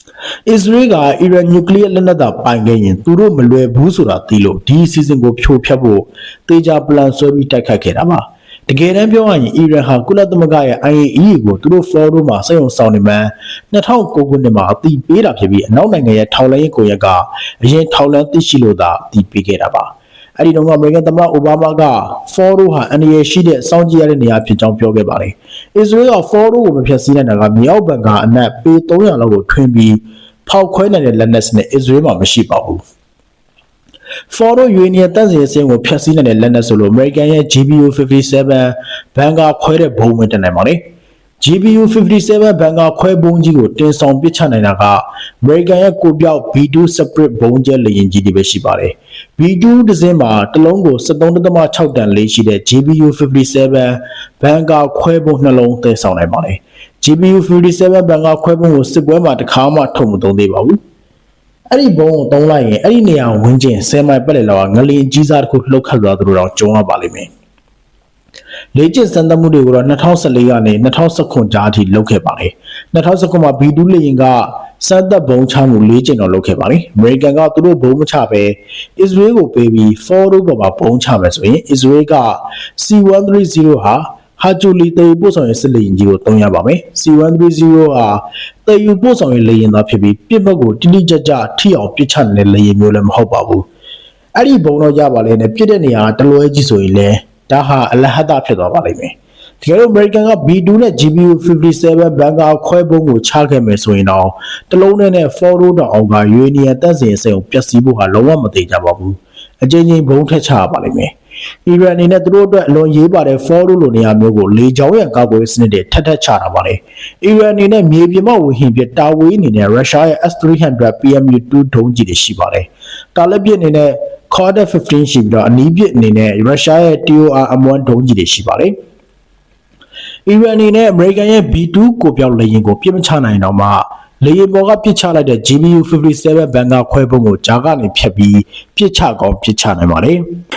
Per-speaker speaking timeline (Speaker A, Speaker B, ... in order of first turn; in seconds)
Speaker A: 0.5-32.8, 34.3-40.9, 41.4-60.8, 61.7-67.3, 68.8-93.7, 94.4-111.1, 111.7-128.8, 130.3-140.2